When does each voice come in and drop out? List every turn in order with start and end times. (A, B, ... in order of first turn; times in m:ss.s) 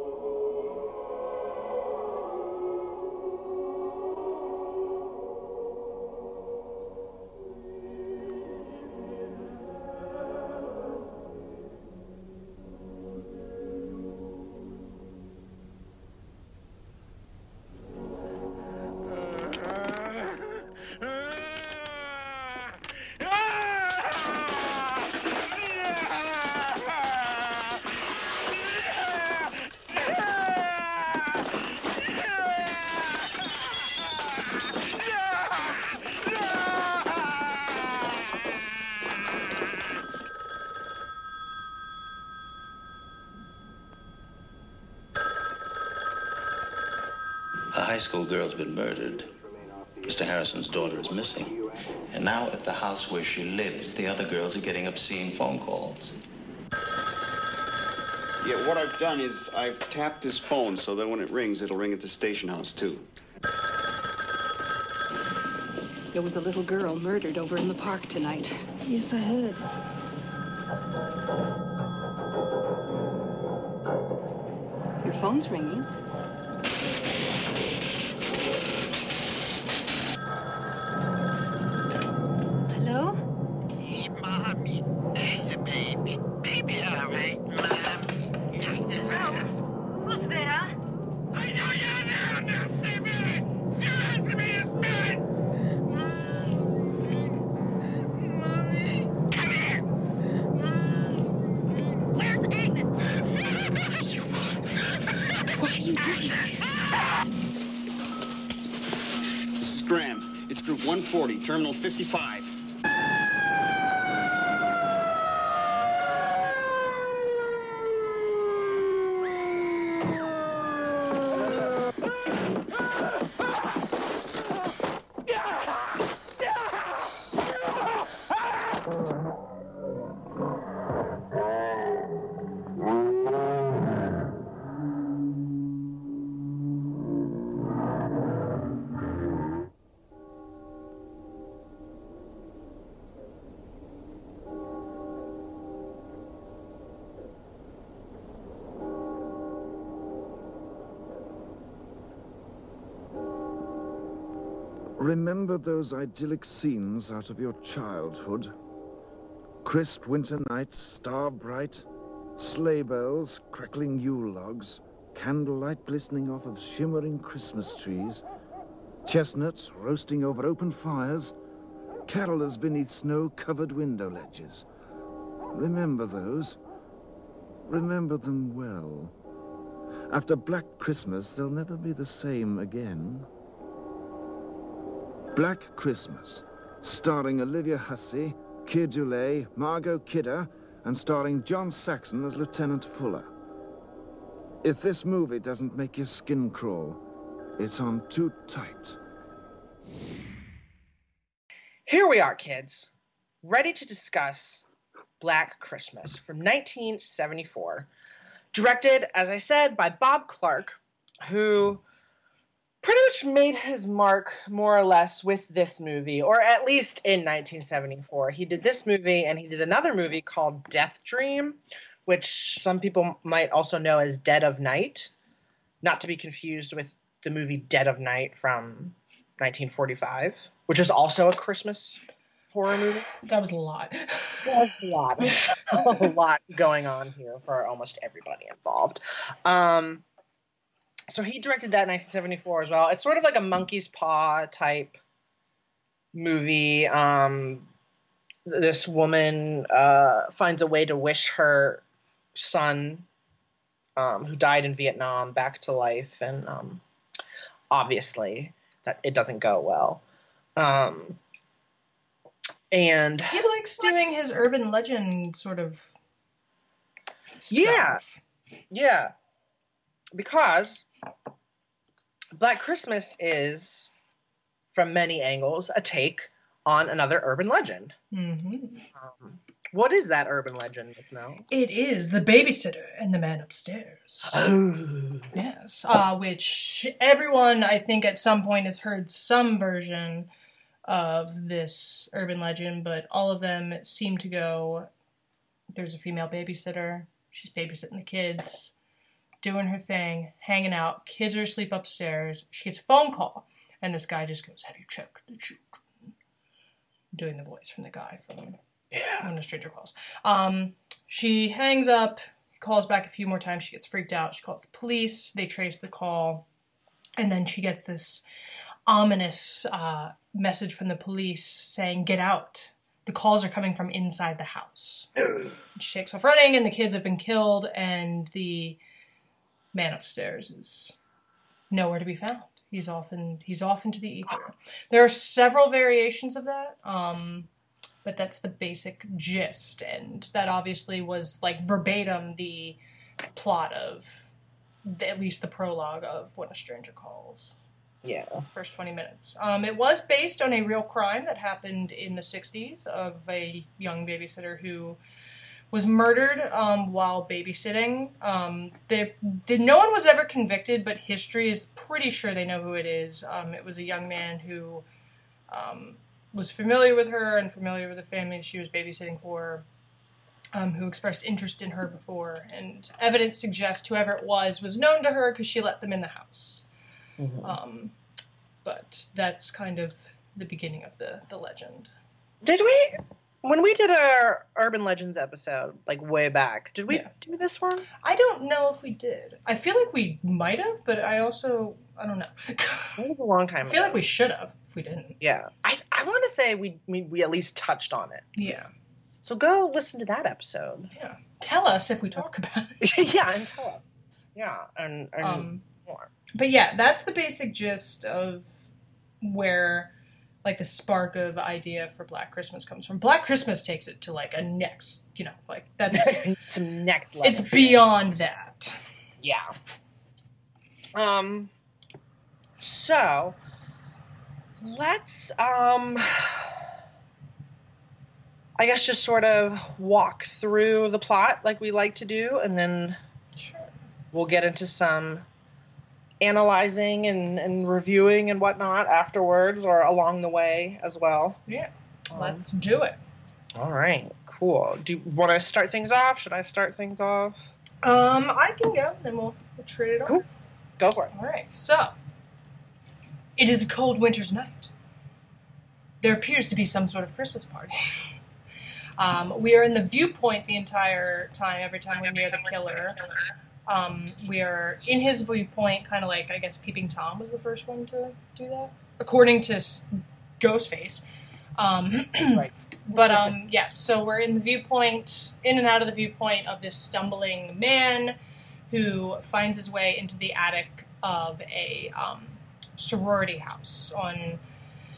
0:47.7-0:49.3 A
0:50.0-0:56.2 A
0:58.4-1:03.1 B
1:06.1-1:09.6 C
1:15.0-1:15.9 C
1:22.7-1:23.2 C
1:26.7-1:27.8 C
1:28.7-1:29.5 C
1:30.0-1:30.7 C
1:45.6-1:46.8 C
1:49.6-1:52.5 B
2:35.0-2:38.5 D
2:39.6-2:41.9 D
2:42.4-2:48.2 D
2:49.1-2:51.3 D
2:52.1-2:54.7 D
2:55.5-2:56.6 D
2:57.7-2:59.2 D
3:00.1-3:03.3 D
3:05.3-3:13.3 D
3:14.6-3:17.0 D
3:17.6-3:19.0 D
3:21.9-3:22.9 E
3:23.4-3:24.6 E
3:25.2-3:27.9 E
3:28.5-3:31.8 E
3:32.8-3:45.1 E
3:45.8-3:52.0 E
3:52.5-3:53.1 E
3:53.2-3:54.6 F
3:54.4-4:00.0 E
3:55.2-3:56.1 F
4:01.1-4:05.0 E
4:06.1-4:07.7 E
4:08.5-4:11.8 E
4:12.4-4:13.1 E
4:14.0-4:16.8 E
4:17.7-4:20.0 E
4:20.6-4:21.2 E
4:22.7-4:23.4 E
4:23.3-4:25.9 F
4:27.4-4:28.2 F
4:27.5-4:28.0 E
4:28.7-4:29.1 E
4:30.1-4:30.9 E
4:32.4-4:33.9 E
4:34.7-4:38.0 E
4:38.1-4:38.9 F
4:39.0-4:41.5 E
4:41.5-4:44.4 F
4:44.3-4:45.3 E
4:45.3-4:50.3 F
4:50.9-4:54.9 F
4:55.7-4:58.8 F
4:59.4-5:06.1 F
5:07.1-5:08.6 F
5:08.9-5:09.3 E
5:09.2-5:16.4 F
5:17.2-5:18.2 F
5:18.9-5:25.1 F
5:25.8-5:28.8 F
5:29.7-5:30.9 F
5:31.7-5:37.5 F
5:38.0-5:42.8 F
5:43.3-5:44.3 F
5:44.8-5:47.6 F
5:48.0-5:48.4 E
5:48.5-5:55.0 F
5:55.7-6:04.8 F
6:05.5-6:09.6 F
6:10.5-6:16.7 F
6:17.2-6:17.5 E
6:17.4-6:18.0 F
6:18.6-6:21.9 F
6:22.4-6:27.9 E
6:28.0-6:33.0 F
6:33.0-6:34.0 E
6:33.6-6:35.2 F
6:35.2-6:38.3 E
6:38.4-6:38.7 F
6:39.2-6:40.9 E
6:40.9-6:43.0 F
6:42.8-6:46.1 E
6:45.2-6:45.6 F
6:46.4-6:48.6 F
6:49.2-6:49.9 F
6:50.4-6:56.2 F
6:55.9-6:57.8 E
6:57.2-6:58.8 F
6:59.2-6:59.5 E
7:01.0-7:01.5 E
7:02.6-7:03.4 E
7:04.6-7:06.6 E
7:08.6-7:13.0 E
7:13.4-7:13.7 F
7:14.1-7:15.2 E
7:16.2-7:21.4 E
7:21.5-7:23.0 F
7:22.1-7:22.4 E
7:23.6-7:27.4 E
7:27.8-7:30.3 F
7:30.8-7:31.1 E
7:31.1-7:32.0 F
7:33.4-7:34.7 F
7:36.0-7:38.1 F
7:39.0-7:43.1 F
7:43.7-7:51.0 F
7:51.6-7:58.2 F
7:52.3-7:53.3 E
7:58.7-8:04.4 F